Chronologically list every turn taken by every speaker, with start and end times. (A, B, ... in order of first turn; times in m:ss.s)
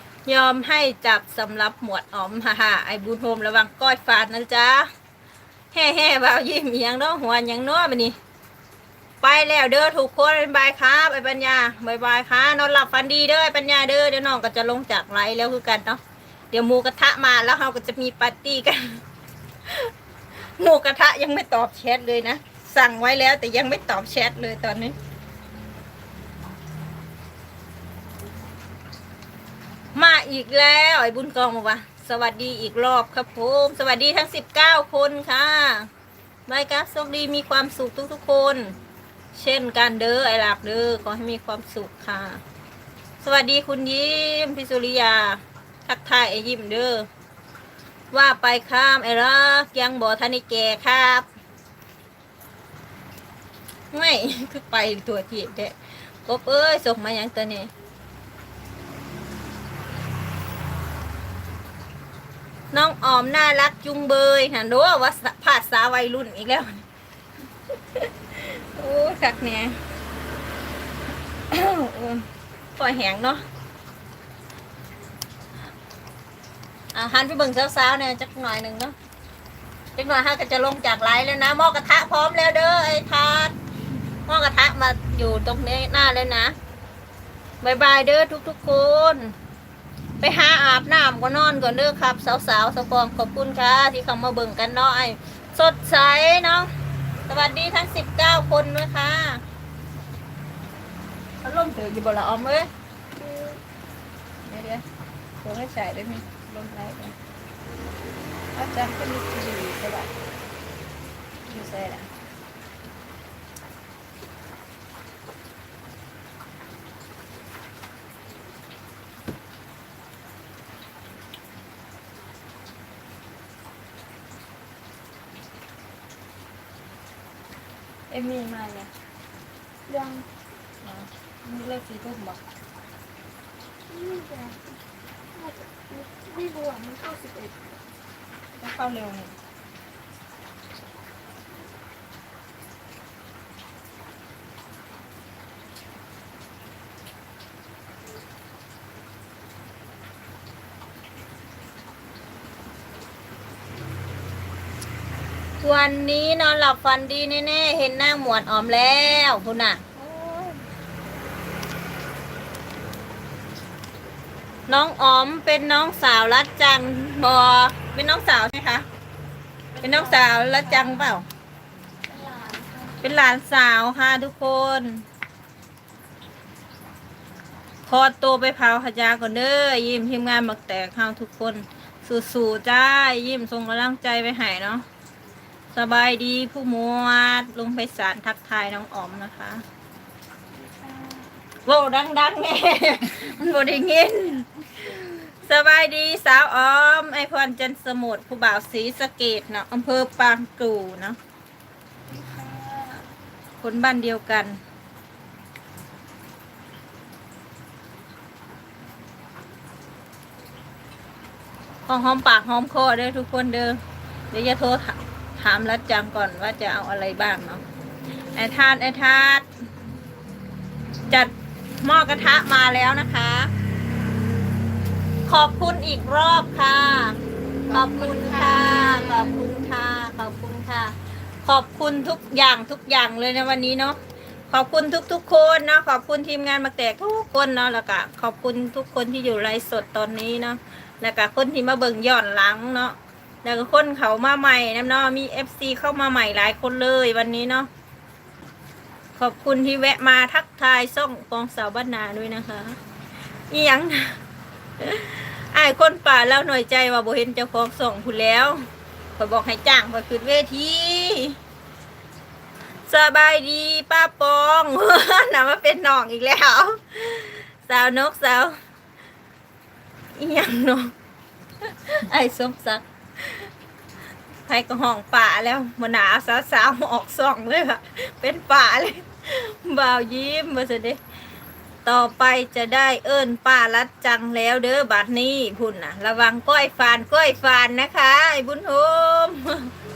0:00.2-0:04.9 A
0:05.7-0:08.2 A
0:09.2-0:16.0 A
0:16.5-0:19.0 A
0:20.6-0:25.0 A
0:30.0-0:35.9 A
0:36.5-0:38.7 A
0:39.3-0:42.4 A
0:43.2-0:47.1 A
0:48.1-0:51.3 A
0:53.9-0:57.7 A
1:02.7-1:06.8 A
1:07.9-1:09.8 A
1:11.5-1:13.4 A
1:16.9-1:18.9 A
1:19.9-1:23.5 A
1:24.2-1:26.6 A
1:27.6-1:29.3 A
1:30.2-1:36.7 A
1:37.3-1:39.4 A
1:41.4-1:42.7 A
1:43.2-1:43.6 B
1:44.4-1:44.8 A
1:45.4-1:47.1 A
1:48.6-1:50.1 A
1:51.5-1:52.1 A
2:08.1-2:08.9 A
2:09.9-2:10.2 B
2:10.8-2:12.4 A
2:13.9-2:14.8 B
2:15.3-2:17.8 B
2:18.6-2:19.3 A
2:35.6-2:40.5 A
2:40.0-2:40.5 B
2:44.7-2:48.8 A
2:49.8-2:50.2 B
2:49.8-2:51.2 A
2:52.1-2:53.0 B
2:53.0-2:55.0 A
2:57.8-3:04.8 A
3:05.7-3:09.6 A
3:10.6-3:11.3 B
3:11.7-3:21.2 A
3:22.1-3:23.0 B
3:23.6-3:24.6 A
3:31.8-3:33.8 A
3:34.3-3:37.6 A
3:38.3-3:39.5 A
3:41.1-3:43.5 A
3:45.2-3:54.0 A
3:47.9-3:49.1 B
3:54.5-4:07.7 A
4:09.2-4:12.8 A
4:13.5-4:14.2 A
4:14.8-4:18.6 A
4:19.2-4:21.4 A
4:22.9-4:28.6 A
4:30.2-4:30.9 A
4:31.6-4:33.5 A
4:34.4-4:41.0 A
4:41.8-4:49.7 A